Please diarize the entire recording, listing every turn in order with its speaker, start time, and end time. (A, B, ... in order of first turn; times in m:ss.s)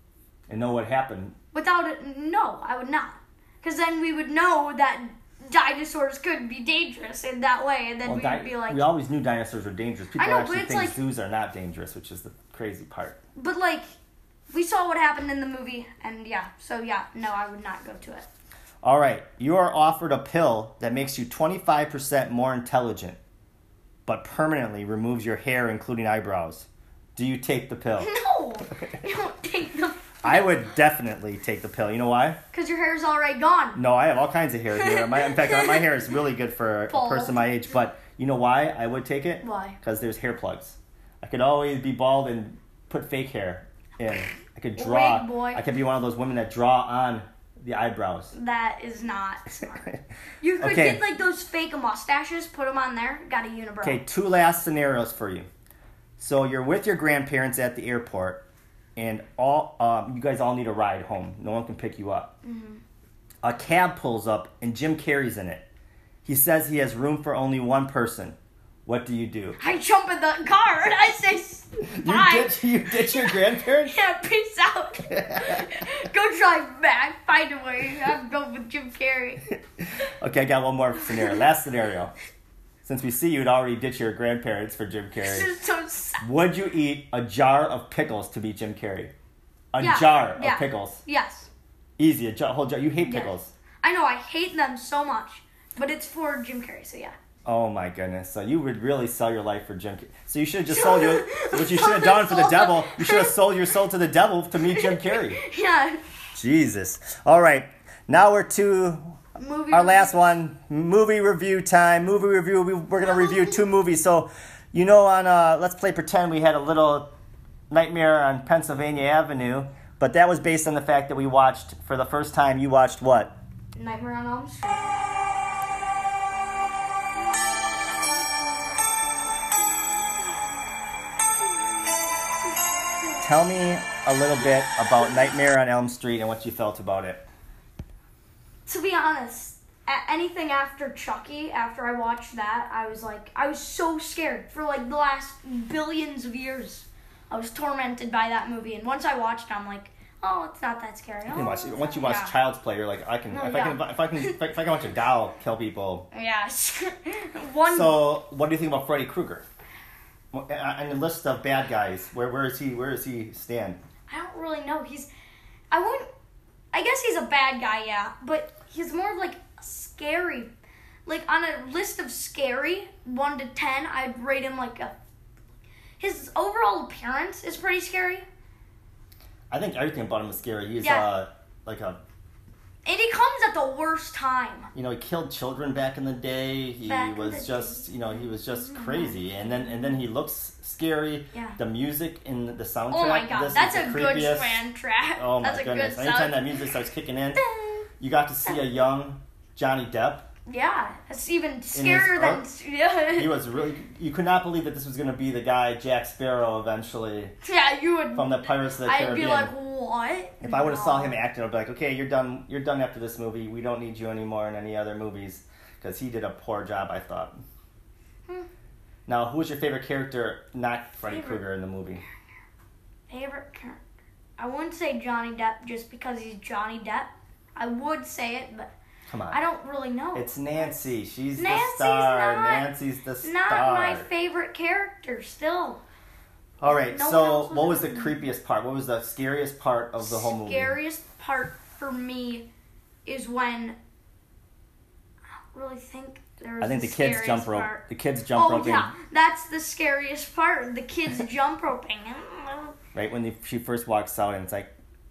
0:00.5-0:01.4 A
0:01.5-0:08.8 B
0:08.0-0:13.2 A
0:10.2-0:11.0 B
0:13.4-0:13.9 B
0:14.5-0:18.3 B
0:18.8-0:23.2 A
0:24.0-0:28.1 A
0:28.0-0:30.7 B
0:30.2-0:32.4 A
0:32.5-0:33.8 B
0:33.8-0:48.3 A
0:34.8-0:35.8 B
0:36.9-0:37.5 B
0:39.4-0:39.8 B
0:44.8-0:45.6 B
0:48.3-0:54.0 B
0:50.6-0:51.0 A
0:53.8-0:55.5 A
0:56.2-1:02.3 A
1:02.4-1:02.8 B
1:03.4-1:05.7 A
1:06.2-1:09.6 A
1:09.6-1:19.5 B
1:11.9-1:14.0 A
1:15.1-1:15.7 A
1:20.0-1:22.1 A
1:22.8-1:25.5 A
1:25.2-1:26.2 B
1:26.2-1:29.1 A
1:29.7-1:31.0 A
1:29.8-1:31.5 B
1:32.0-1:33.5 A
1:33.0-1:37.1 B
1:37.4-1:45.4 A
1:40.7-1:43.4 B
1:44.7-1:46.0 B
1:46.3-1:49.2 A
1:49.4-1:50.2 B
1:49.7-1:57.1 A
1:53.0-1:53.6 B
1:57.7-2:03.4 A
2:03.7-2:04.9 B
2:13.2-2:17.2 A
2:18.6-2:32.3 B
2:31.3-2:36.1 A
2:33.3-2:34.4 B
2:36.1-2:38.1 B
2:37.6-2:39.4 A
2:40.3-2:43.8 A
2:44.1-2:45.1 B
2:45.7-2:46.1 B
2:46.7-2:50.5 B
2:51.0-2:54.9 B
2:56.0-2:58.2 B
2:59.5-3:02.0 A
3:00.8-3:01.1 B
3:02.8-3:04.7 B
3:04.7-3:14.6 A
3:06.8-3:09.8 B
3:11.3-3:11.6 B
3:12.9-3:16.6 B
3:15.1-3:17.4 A
3:17.4-3:17.8 B
3:18.0-3:20.3 A
3:20.4-3:23.4 B
3:21.7-3:22.4 A
3:23.1-3:27.3 A
3:27.4-3:31.2 B
3:28.1-3:29.5 A
3:30.4-3:37.4 A
3:39.1-3:42.0 A
3:41.1-3:41.4 B
3:43.1-3:43.8 B
3:44.4-3:48.7 B
3:49.1-3:49.4 A
3:49.3-3:50.8 B
3:50.1-3:54.1 A
3:51.4-3:52.7 B
3:53.2-3:55.8 B
3:56.6-4:00.8 A
3:56.6-3:58.2 B
4:00.0-4:02.5 B
4:03.0-4:03.8 B
4:05.5-4:07.8 B
4:06.6-4:08.9 A
4:08.3-4:12.8 B
4:12.9-4:14.7 A